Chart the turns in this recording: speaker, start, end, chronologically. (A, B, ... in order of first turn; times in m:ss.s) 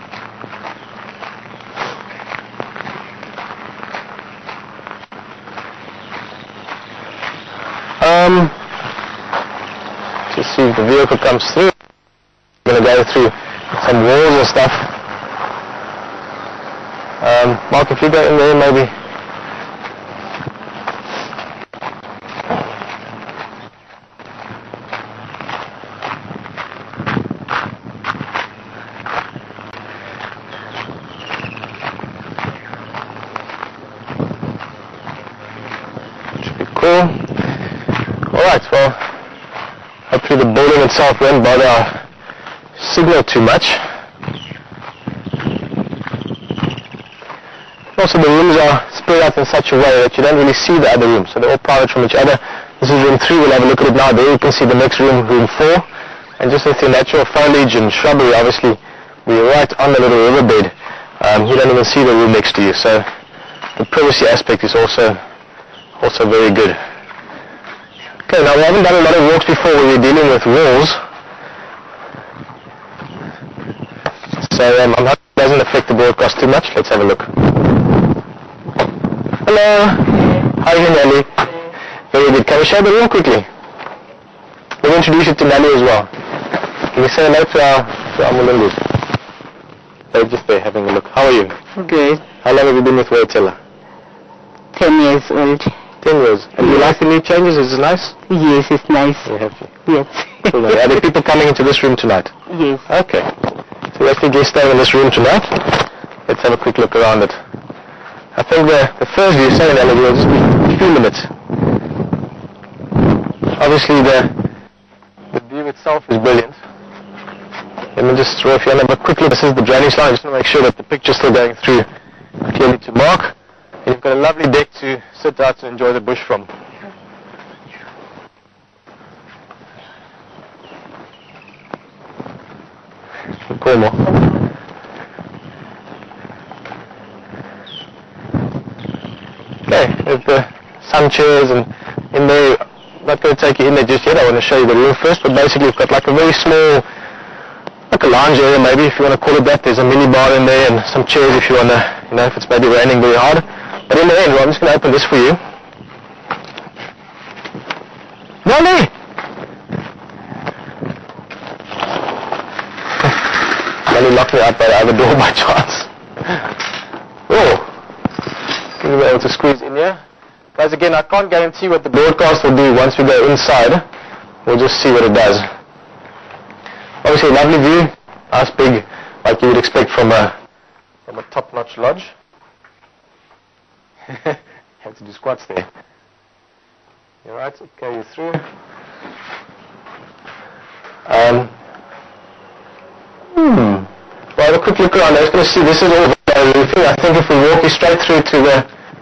0:08.0-0:08.6 A
0:10.3-0:11.7 A
0:12.6-0:14.9 A
0:17.2-0:18.9 A
0:36.4-0:37.2 A
0:38.3-0:39.0 A
0:40.1-0:42.0 A
0:42.8-0:43.8 A
0:48.0-0:55.9 A
0:56.4-1:03.1 A
1:03.8-1:05.2 A
1:06.0-1:06.8 A
1:08.3-1:11.0 A
1:14.4-1:17.3 A
1:19.4-1:21.5 A
1:22.1-1:23.5 A
1:24.8-1:26.1 A
1:26.9-1:28.8 A
1:30.1-1:31.6 A
1:31.8-1:32.2 B
1:32.4-1:33.6 A
1:34.8-1:35.8 B
1:36.0-1:38.2 A
1:38.3-1:39.3 B
1:39.2-1:39.8 A
1:39.9-1:40.6 B
1:40.4-1:43.3 A
1:42.5-1:42.8 B
1:43.9-1:47.4 A
1:48.4-1:51.3 A
1:53.6-1:54.4 A
1:55.3-1:56.6 A
1:58.0-2:01.9 A
2:02.4-2:06.5 A
2:13.5-2:14.2 A
2:19.7-2:26.9 A
2:27.9-2:35.4 A
2:38.4-2:38.9 A
2:43.9-2:45.9 A
2:47.3-2:47.7 A
2:48.8-2:50.0 A
2:50.6-2:53.8 A
2:54.4-2:55.5 A
2:57.0-3:00.4 A
3:01.1-3:02.1 A
3:04.1-3:05.7 A
3:07.2-3:08.4 A
3:11.1-3:11.5 A
3:13.4-3:18.7 A